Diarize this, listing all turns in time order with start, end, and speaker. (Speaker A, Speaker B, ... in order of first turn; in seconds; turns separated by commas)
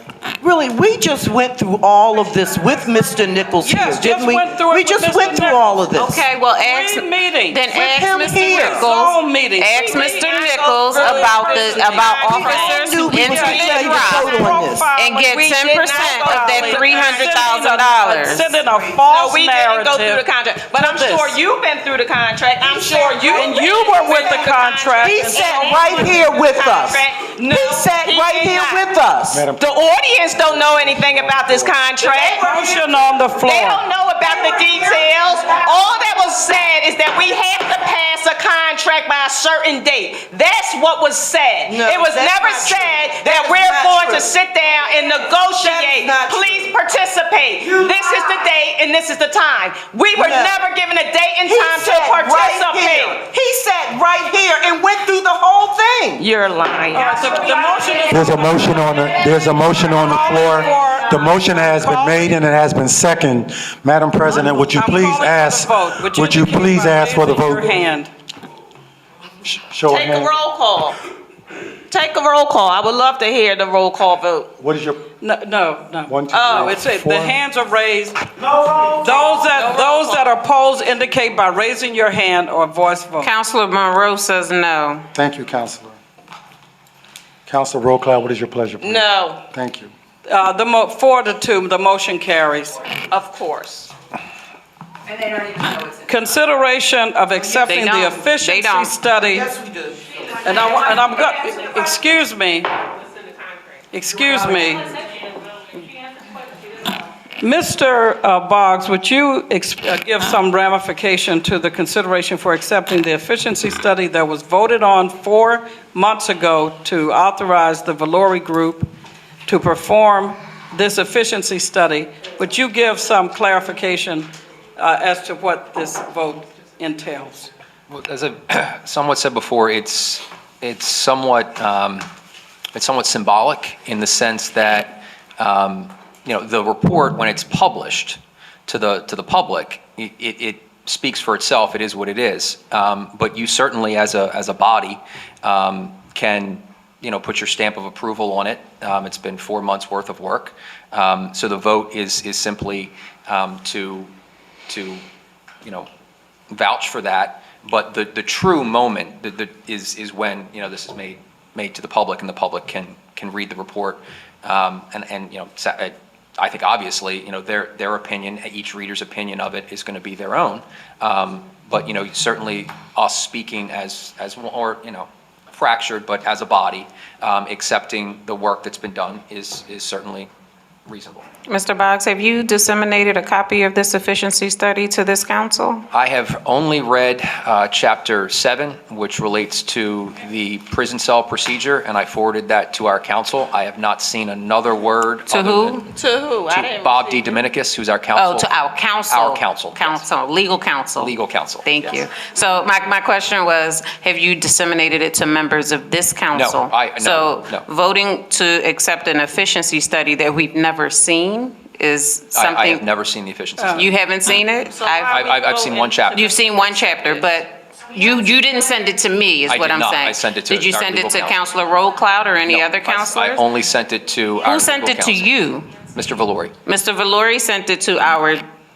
Speaker A: 0.4-6.3, Speaker B: 3.6-7.7, Speaker C: 6.0-14.4, Speaker A: 7.7-8.9, Speaker B: 8.6-11.9, Speaker D: 9.8-12.9, Speaker A: 12.2-14.9, Speaker B: 13.2-21.4, Speaker C: 14.9-18.6, Speaker D: 15.2-17.9, Speaker D: 19.1-28.9, Speaker A: 22.6-24.1, Speaker B: 23.3-26.1, Speaker A: 25.0-29.5, Speaker E: 29.3-29.7, Speaker D: 29.6-32.5, Speaker E: 30.3-31.8, Speaker A: 32.0-33.0, Speaker B: 32.4-33.8, Speaker D: 33.4-53.2, Speaker A: 34.2-36.0, Speaker A: 41.7-44.4, Speaker A: 45.4-46.7, Speaker A: 47.6-48.4, Speaker A: 50.1-50.6, Speaker A: 51.5-56.2, Speaker D: 56.2-58.9, Speaker B: 56.9-58.7, Speaker E: 58.1-67.8, Speaker B: 60.0-62.4, Speaker B: 64.2-68.1, Speaker E: 69.5-70.3, Speaker D: 69.9-71.0, Speaker D: 71.9-74.5, Speaker E: 74.6-75.1, Speaker B: 75.2-78.2, Speaker E: 76.1-77.4, Speaker D: 76.3-76.8, Speaker D: 78.8-80.3, Speaker B: 78.9-83.3, Speaker C: 83.2-85.1, Speaker E: 85.1-86.0, Speaker E: 87.5-89.9, Speaker D: 88.8-89.4, Speaker B: 90.2-92.8, Speaker D: 93.0-93.9, Speaker B: 96.1-99.5, Speaker C: 97.6-99.0, Speaker A: 99.2-100.2, Speaker B: 100.3-102.7, Speaker B: 103.9-105.0, Speaker B: 107.4-118.9, Speaker B: 119.5-127.5, Speaker F: 127.9-132.1, Speaker F: 132.7-154.1, Speaker F: 154.7-155.0, Speaker F: 156.5-180.3, Speaker F: 180.8-181.2, Speaker C: 181.5-185.8, Speaker F: 185.9-195.8, Speaker C: 195.3-195.9, Speaker D: 195.9-197.4, Speaker F: 196.5-200.1, Speaker C: 198.2-212.8, Speaker F: 201.0-201.7, Speaker F: 206.3-207.7, Speaker F: 212.3-213.8, Speaker B: 213.6-213.9, Speaker C: 213.7-215.5, Speaker D: 214.8-216.5, Speaker F: 215.0-216.3, Speaker C: 216.1-223.5, Speaker F: 219.5-221.4, Speaker F: 222.4-225.3, Speaker C: 224.4-225.8, Speaker F: 225.9-226.6, Speaker C: 226.6-228.4